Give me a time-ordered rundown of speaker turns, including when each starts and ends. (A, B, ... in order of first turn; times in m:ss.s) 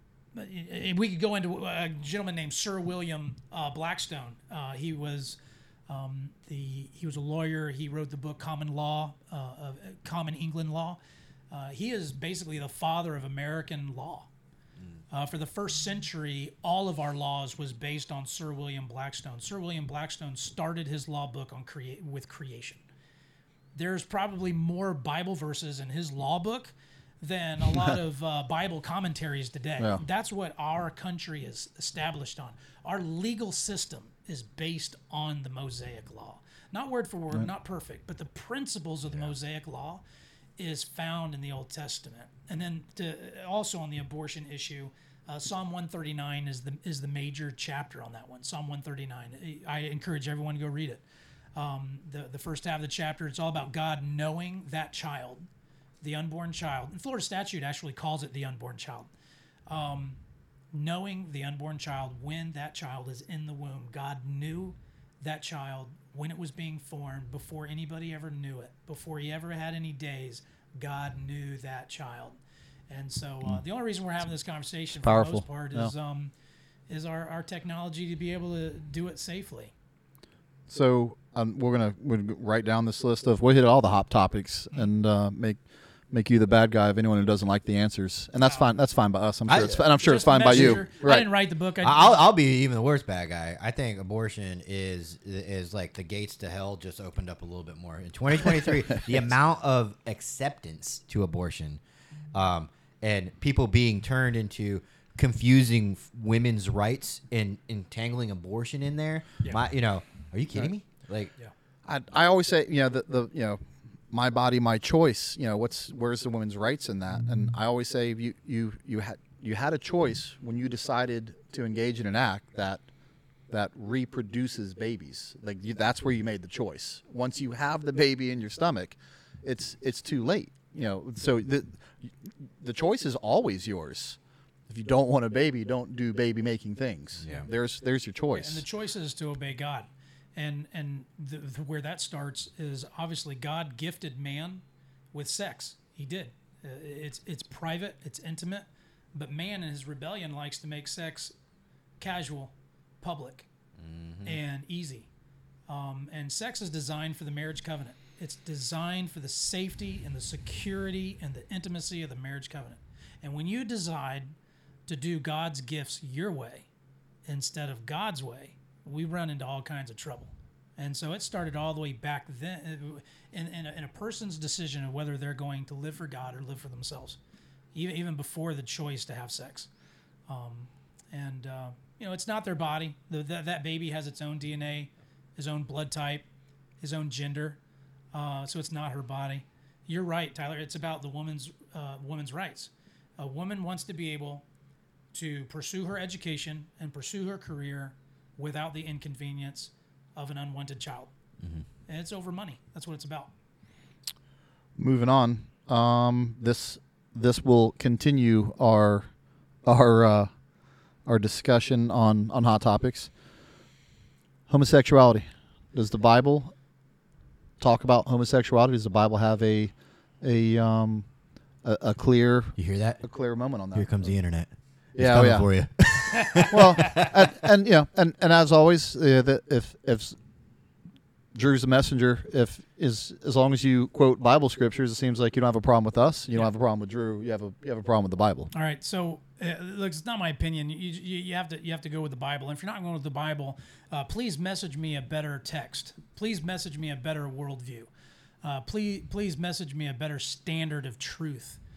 0:00.3-0:11.0 A
0:11.5-0:14.3 A
0:15.1-0:22.8 A
0:23.7-0:40.0 A
0:40.6-0:51.0 A
0:51.5-0:55.5 A
0:56.0-0:59.1 A
0:59.7-1:00.2 A
1:00.7-1:12.4 A
1:12.9-1:16.3 A
1:15.0-1:15.9 B
1:16.9-1:19.7 A
1:20.7-1:31.3 B
1:28.4-1:28.7 A
1:29.4-1:30.8 C
1:30.0-1:32.2 A
1:31.8-1:41.8 C
1:42.3-1:51.3 C
1:51.8-2:02.8 B
2:03.5-2:18.6 B
2:17.2-2:17.5 C
2:18.3-2:31.3 A
2:32.0-2:33.5 A
2:33.8-2:34.4 C
2:34.2-2:35.1 A
2:35.7-2:44.3 A
2:44.9-2:46.7 A
2:47.2-2:57.2 A
2:57.7-2:59.7 A
3:00.3-3:06.2 A
3:06.8-3:07.6 A
3:08.1-3:14.4 A
3:15.1-3:21.1 A
3:21.4-3:21.6 C
3:21.9-3:23.3 A
3:24.8-3:29.1 B
3:29.6-3:30.3 B
3:31.0-3:33.1 B
3:34.5-3:36.5 B
3:37.6-3:41.1 B
3:41.6-3:44.1 B
3:42.6-3:43.0 C
3:43.7-3:47.2 C
3:45.0-3:45.5 B
3:46.4-3:50.2 B
3:51.3-3:58.5 B
3:58.5-4:07.9 A
4:08.4-4:11.6 A